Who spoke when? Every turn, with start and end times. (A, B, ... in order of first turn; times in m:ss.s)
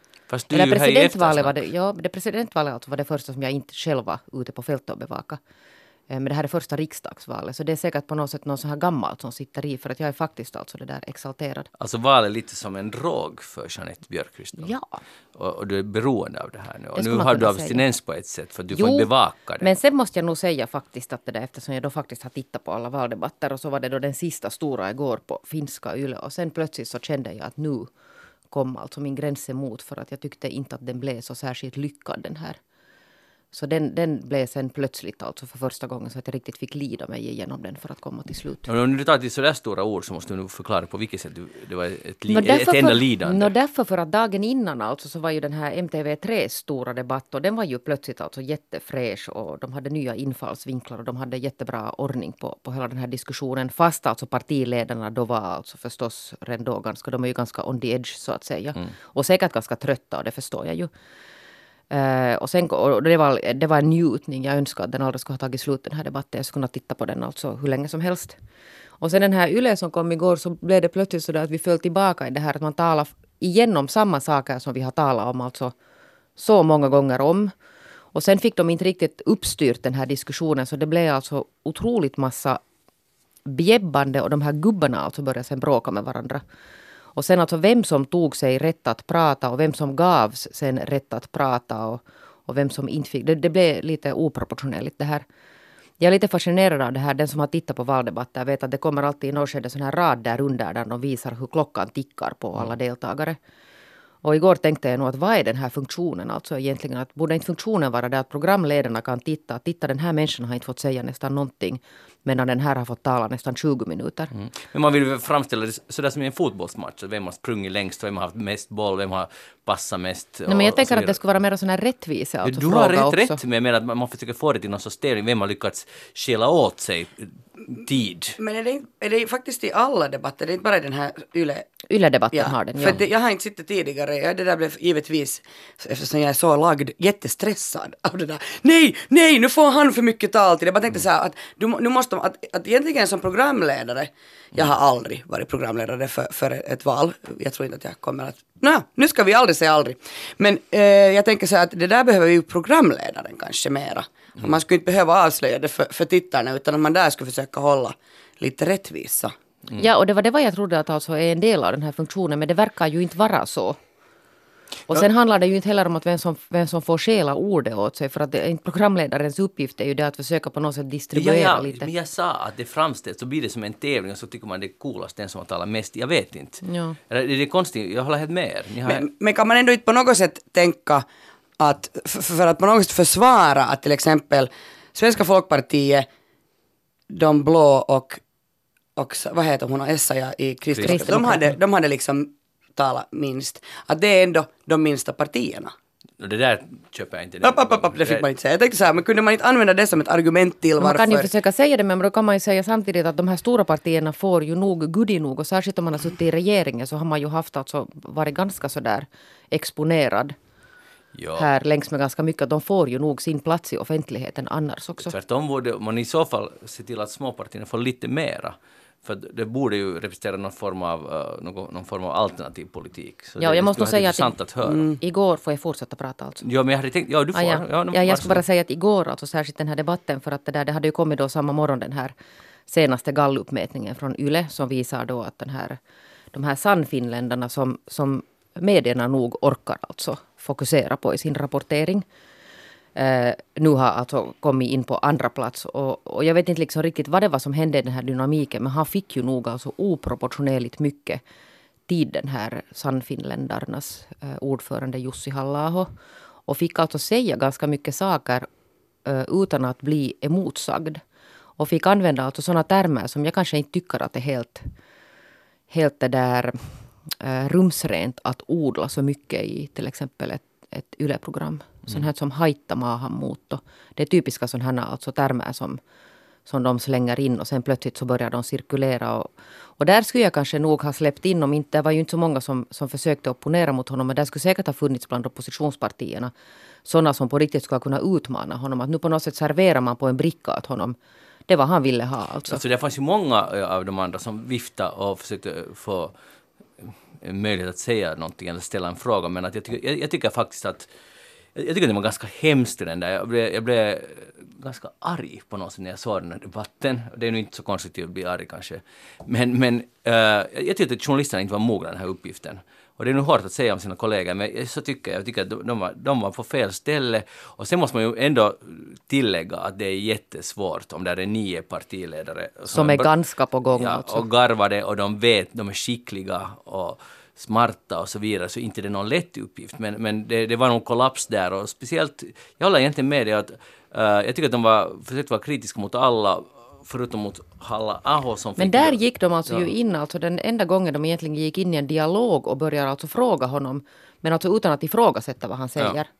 0:00.3-0:01.6 A
0:00.5-0:05.4 B
0:06.1-0:11.7 B
0:11.8-0:14.7 A
0:14.6-0:14.8 B
0:15.3-0:19.7 A
0:16.9-0:17.8 B
0:18.7-0:27.9 B
0:28.5-0:32.6 B
0:33.5-0:38.7 B
0:38.6-0:43.5 A
0:42.3-1:00.9 B
1:01.9-1:08.4 B
1:09.0-1:15.7 B
1:16.4-1:17.5 B
1:18.1-1:22.6 B
1:23.4-1:26.4 B
1:27.2-1:35.2 B
1:36.0-1:43.4 B
1:44.2-1:54.3 B
1:54.3-2:01.2 A
2:00.5-2:03.4 B
2:02.4-2:08.4 A
2:08.4-2:11.7 C
2:11.9-2:13.0 B
2:12.3-2:39.3 C
2:39.7-2:43.8 B
2:44.9-2:51.9 B
2:51.1-2:59.0 A
2:56.6-2:57.0 B
2:58.8-3:01.0 C
3:01.6-3:06.1 C
3:07.1-3:08.2 C
3:09.0-3:15.7 C
3:10.8-3:11.0 A
3:10.8-3:11.5 B
3:16.2-3:18.2 A
3:17.4-3:21.3 C
3:20.8-3:30.3 B
3:31.1-3:31.5 A
3:31.4-3:35.1 B
3:35.0-3:44.9 A
3:43.4-3:44.3 B
3:45.0-3:46.4 B
3:46.4-3:48.4 A
3:47.3-3:52.1 B
3:52.7-3:55.8 B
3:56.3-4:02.0 B
4:03.0-4:11.2 B
4:11.9-4:15.9 B
4:16.5-4:18.5 B
4:19.0-4:21.0 B
4:21.6-4:24.7 B
4:25.7-4:35.8 B
4:36.5-4:46.3 B
4:46.8-4:51.0 B
4:51.5-4:52.6 B
4:52.4-4:56.1 A
4:56.8-5:00.9 A
5:01.5-5:23.1 A
5:22.7-5:24.2 B
5:23.7-5:39.7 A
5:38.6-5:46.1 B